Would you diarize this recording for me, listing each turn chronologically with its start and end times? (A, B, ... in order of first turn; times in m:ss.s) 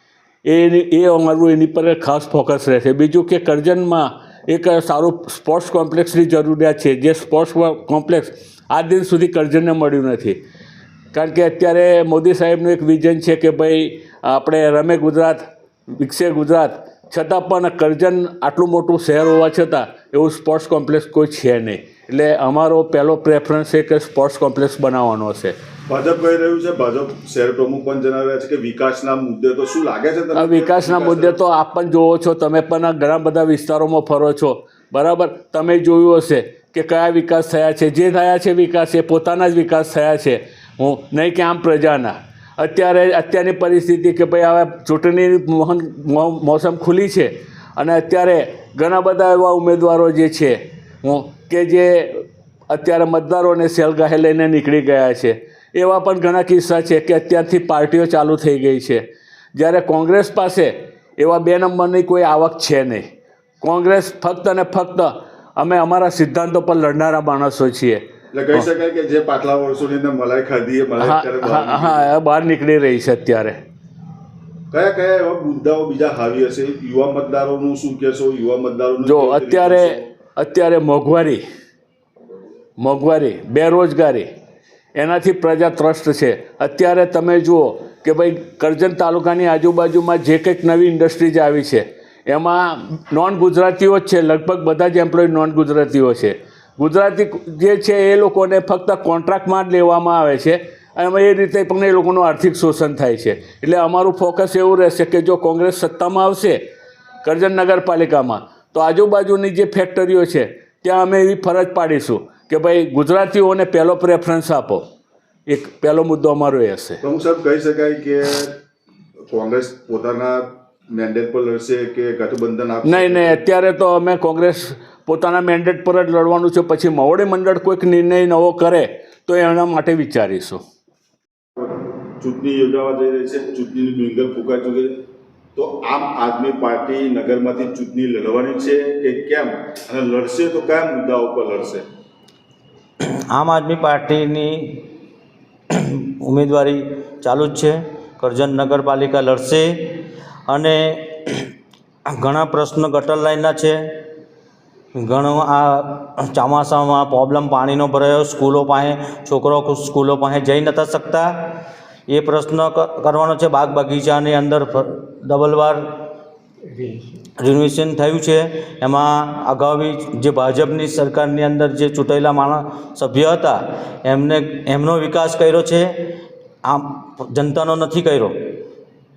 0:00.5-0:10.4 A
0:11.1-0:15.4 A
0:16.0-0:25.5 A
0:25.9-0:31.4 B
0:30.3-0:59.0 A
0:59.6-1:03.0 A
1:03.6-1:08.0 A
1:08.3-1:12.1 B
1:11.0-1:13.6 A
1:14.7-1:20.0 B
1:19.0-1:21.4 A
1:22.8-1:24.3 A
1:25.0-1:46.6 A
1:47.2-1:54.9 A
1:55.5-1:57.0 A
1:57.0-1:58.6 B
1:59.3-2:03.4 B
2:02.8-2:10.6 A
2:12.2-2:14.9 B
2:15.6-2:21.8 B
2:23.1-2:24.9 C
2:25.7-2:31.5 C
2:32.1-2:34.1 C
2:35.0-2:46.1 C
2:47.4-2:58.6 C